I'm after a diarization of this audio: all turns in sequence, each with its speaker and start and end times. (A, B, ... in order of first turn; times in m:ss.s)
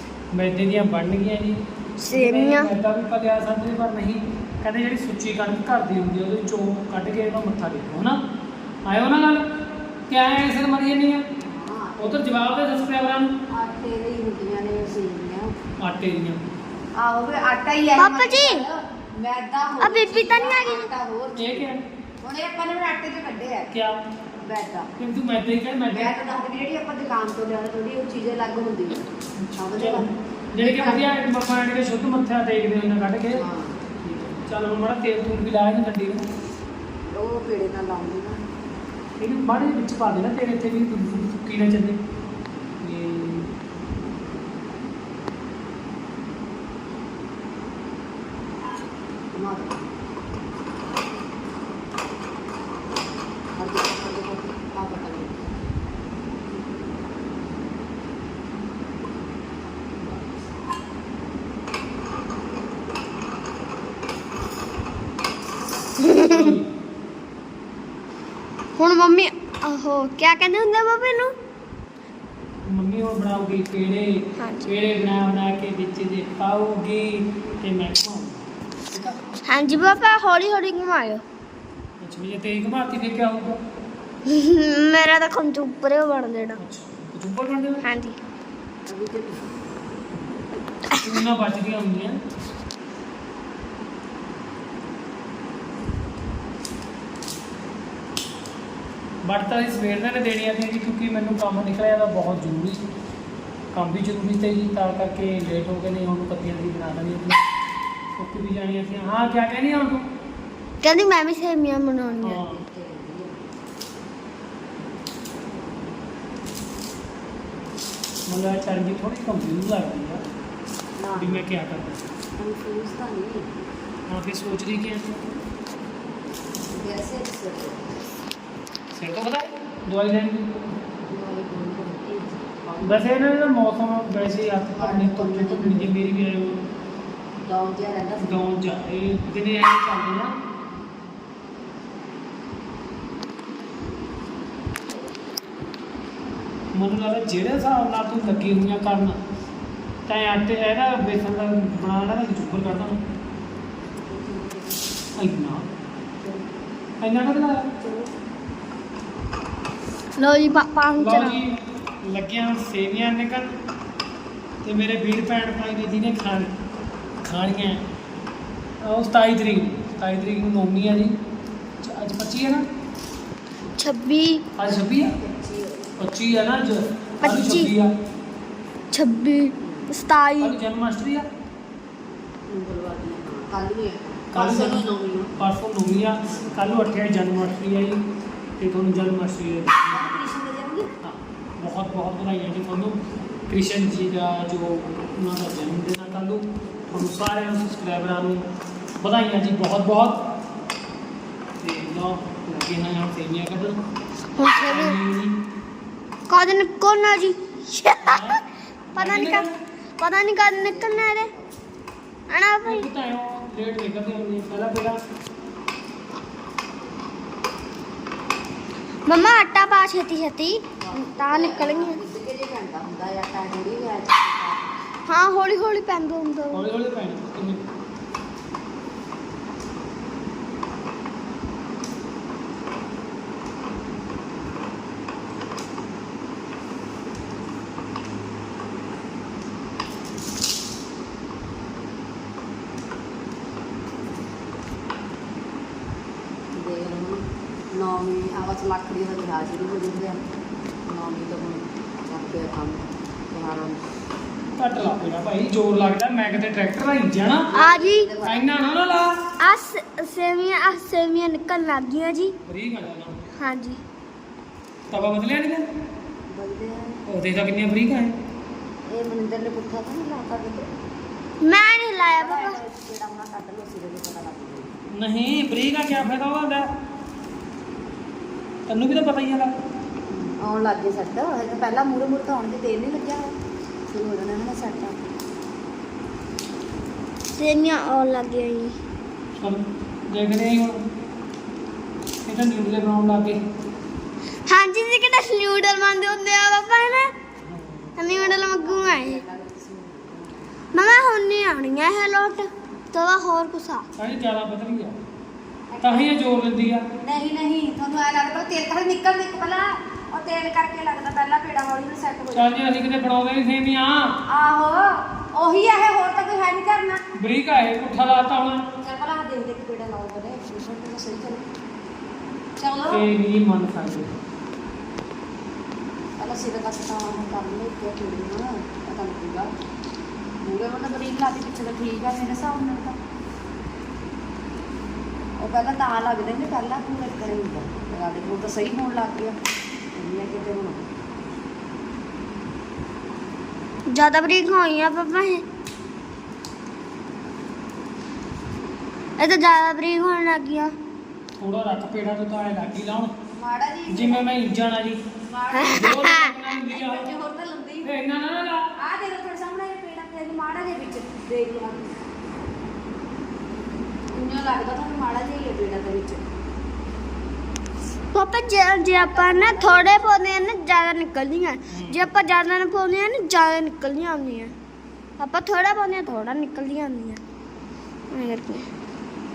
0:00.3-0:08.2 A
0:02.0-0:02.7 B
0:08.8-0:09.4 A
0:10.1-0:11.2 A
0:11.4-0:12.2 C
0:12.0-0:13.3 A
0:13.5-0:15.5 C
0:15.8-0:16.4 A
0:17.0-0:21.7 C
0:18.0-0:18.6 B
0:19.8-0:20.9 B
0:21.4-0:21.8 A
0:22.2-0:23.7 C
0:23.7-0:24.0 A
0:24.4-0:24.9 C
0:25.0-0:26.2 A
0:25.9-0:31.0 C
0:29.4-0:33.4 A
0:33.3-0:33.8 C
0:34.0-0:36.3 A
0:37.1-0:38.4 C
0:39.2-0:42.0 A
0:42.8-0:43.5 A
0:49.3-0:49.9 C
0:53.6-0:55.6 C
1:06.0-1:06.6 B
1:06.1-1:06.7 A
1:08.8-1:11.3 B
1:12.7-1:19.2 A
1:14.4-1:14.7 B
1:19.5-1:21.2 B
1:22.0-1:23.6 A
1:24.3-1:26.6 B
1:26.6-1:27.8 A
1:27.8-1:28.2 B
1:28.9-1:29.5 C
1:31.0-1:32.2 A
1:39.2-1:42.8 A
1:43.7-1:47.4 A
1:48.2-1:50.1 A
1:50.8-1:52.4 B
1:52.2-1:52.6 A
1:52.3-1:53.4 C
1:58.3-2:00.2 A
2:01.0-2:01.5 C
2:01.2-2:02.1 A
2:02.4-2:03.5 C
2:04.1-2:05.2 A
2:06.7-2:08.0 C
2:08.9-2:10.6 A
2:11.0-2:13.1 C
2:12.8-2:16.6 A
2:14.7-2:15.9 C
2:17.4-2:18.4 C
2:18.2-2:20.4 A
2:26.8-2:29.2 A
2:30.1-2:33.0 A
2:34.0-2:34.9 C
2:35.2-2:35.7 A
2:37.0-2:37.7 A
2:37.8-2:38.1 C
2:40.2-2:41.4 B
2:41.0-2:43.6 A
2:44.6-2:46.5 A
2:47.2-2:47.8 A
2:48.8-2:51.2 A
2:51.8-2:52.6 A
2:53.8-2:54.4 B
2:54.6-2:55.2 A
2:55.0-2:55.9 C
2:56.0-2:57.9 A
2:57.2-2:57.7 B
2:58.9-3:00.6 B
2:59.6-2:59.9 C
3:00.4-3:01.3 A
3:02.5-3:05.4 C
3:04.3-3:08.0 A
3:06.3-3:06.6 C
3:08.6-3:10.2 A
3:09.9-3:11.0 C
3:11.0-3:13.0 A
3:13.5-3:18.4 A
3:19.0-3:20.2 A
3:21.6-3:23.8 A
3:24.4-3:25.0 B
3:24.5-3:25.4 A
3:26.3-3:28.4 B
3:28.0-3:28.4 A
3:29.0-3:29.6 A
3:29.0-3:29.5 B
3:30.0-3:31.3 B
3:30.5-3:31.6 C
3:32.3-3:32.9 B
3:32.6-3:35.0 A
3:39.1-3:42.0 B
3:40.8-3:44.8 C
3:45.1-3:46.6 B
3:46.5-3:47.6 A
4:06.5-4:10.2 C
4:10.9-4:13.8 C
4:14.6-4:17.5 A
4:17.5-4:18.5 C
4:17.6-4:18.1 B
4:18.2-4:19.2 A
4:19.4-4:22.4 B
4:22.4-4:23.2 A
4:23.4-4:23.8 B
4:24.9-4:25.7 A
4:26.3-4:27.0 C
4:27.1-4:28.2 A
4:28.9-4:30.7 C
4:31.4-4:32.6 B
4:32.2-4:34.7 C
4:34.9-4:36.7 A
4:38.7-4:39.5 A
4:40.1-4:43.4 C
4:43.9-4:45.0 C
4:47.4-4:48.7 B
4:49.4-4:50.8 A
4:52.2-4:53.4 A
4:54.5-4:57.1 B
4:57.4-4:58.0 A
4:58.0-4:59.2 B
4:58.0-5:00.6 C
5:00.7-5:03.8 B
5:04.0-5:05.0 A
5:05.7-5:06.2 C
5:05.8-5:06.9 A
5:07.0-5:12.5 C
5:12.3-5:14.2 A
5:14.3-5:17.0 C
5:17.2-5:18.6 A
5:18.8-5:21.4 C
5:22.6-5:23.1 C
5:22.9-5:24.1 A
5:26.2-5:29.5 C
5:30.4-5:33.0 C
5:35.4-5:39.4 C
5:40.0-5:40.9 C
5:43.9-5:45.4 B
5:49.2-5:50.7 B
5:51.4-5:53.1 A
5:53.4-5:54.3 C
5:53.9-5:55.0 A
5:55.2-5:56.0 C
5:55.5-5:56.3 B
5:55.7-5:57.1 A
5:56.6-5:57.9 C
5:57.8-5:58.7 A
5:58.8-6:02.0 C
6:04.1-6:06.2 C
6:08.1-6:14.5 B
6:08.9-6:10.0 C
6:11.7-6:12.1 A
6:15.2-6:17.2 B
6:18.1-6:18.7 B